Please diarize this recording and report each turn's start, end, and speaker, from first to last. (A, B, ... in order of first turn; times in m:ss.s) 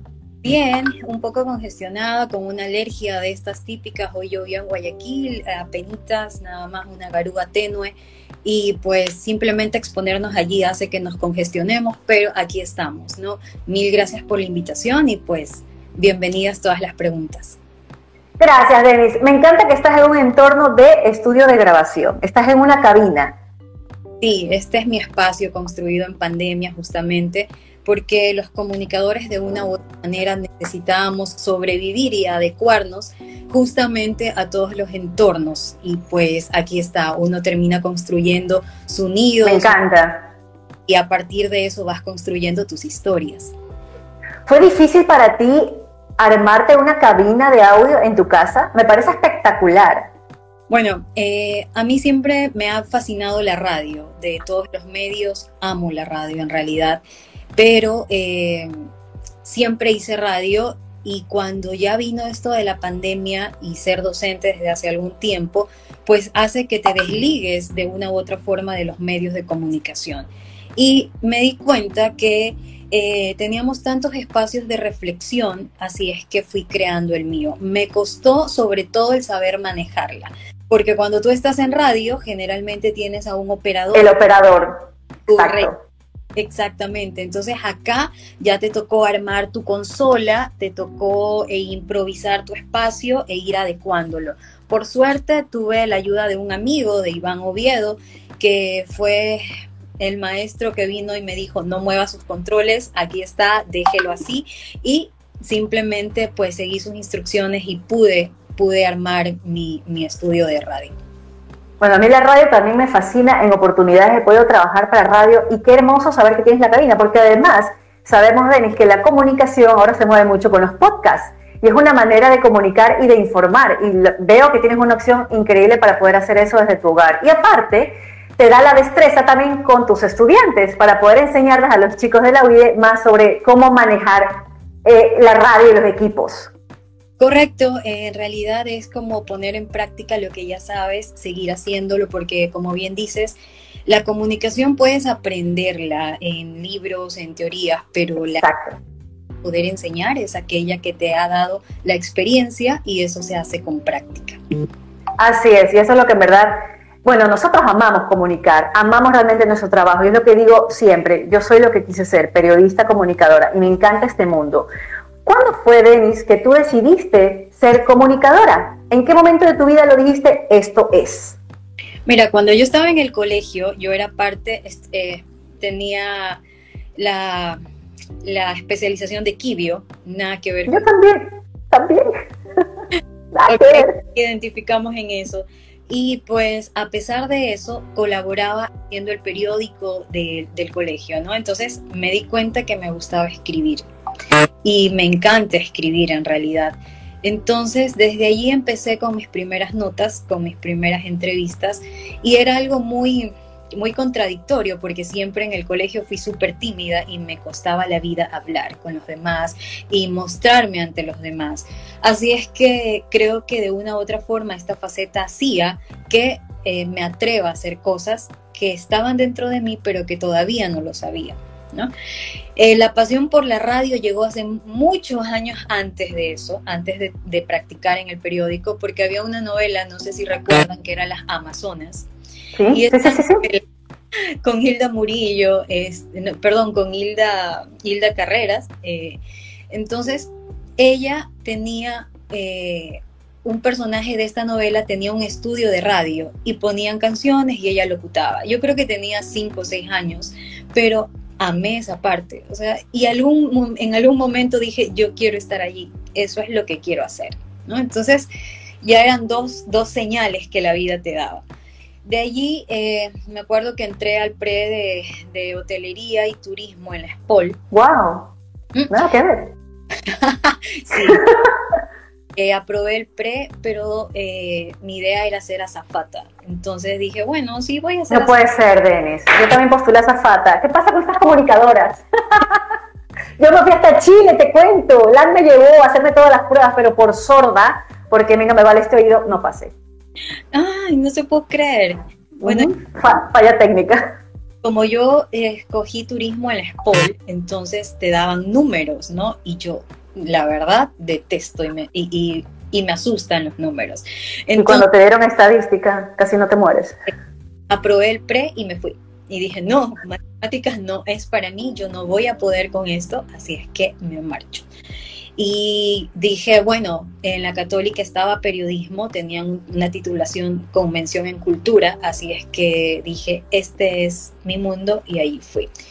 0:00.4-0:17.6 A
0:18.4-0:23.4 B
0:24.2-0:39.8 A
0:39.4-0:40.2 B
0:40.9-0:43.5 A
0:44.4-0:50.1 B
0:50.7-0:57.0 A
0:57.6-0:58.7 A
0:59.4-1:24.2 A
1:23.9-1:25.8 B
1:25.3-1:25.7 A
1:26.4-1:39.4 A
1:40.0-1:50.9 A
1:51.8-2:16.5 B
2:17.2-2:23.4 A
2:23.9-2:28.4 A
2:28.4-2:28.8 B
2:29.4-2:34.4 A
2:35.2-2:44.7 B
2:45.2-2:51.4 B
2:52.0-2:56.4 A
2:57.0-2:57.6 A
2:58.2-3:00.8 A
3:00.7-3:02.1 B
3:03.3-3:04.0 B
3:03.5-3:13.8 A
3:14.6-3:41.9 A
3:42.6-3:52.1 A
3:52.6-3:53.4 B
3:52.7-3:53.6 A
3:54.4-3:59.2 A
3:59.7-4:18.3 A
4:18.8-4:21.4 A
4:22.0-4:27.6 A
4:27.7-4:28.3 B
4:28.9-4:29.5 B
4:30.0-4:31.3 A
4:31.0-4:31.5 B
4:32.3-4:38.4 A
4:38.1-4:42.6 B
4:43.4-4:49.7 B
4:50.5-4:52.7 A
4:52.4-4:54.0 B
4:54.6-5:04.9 A
5:04.6-5:07.0 B
5:07.7-5:14.7 A
5:15.4-5:25.7 A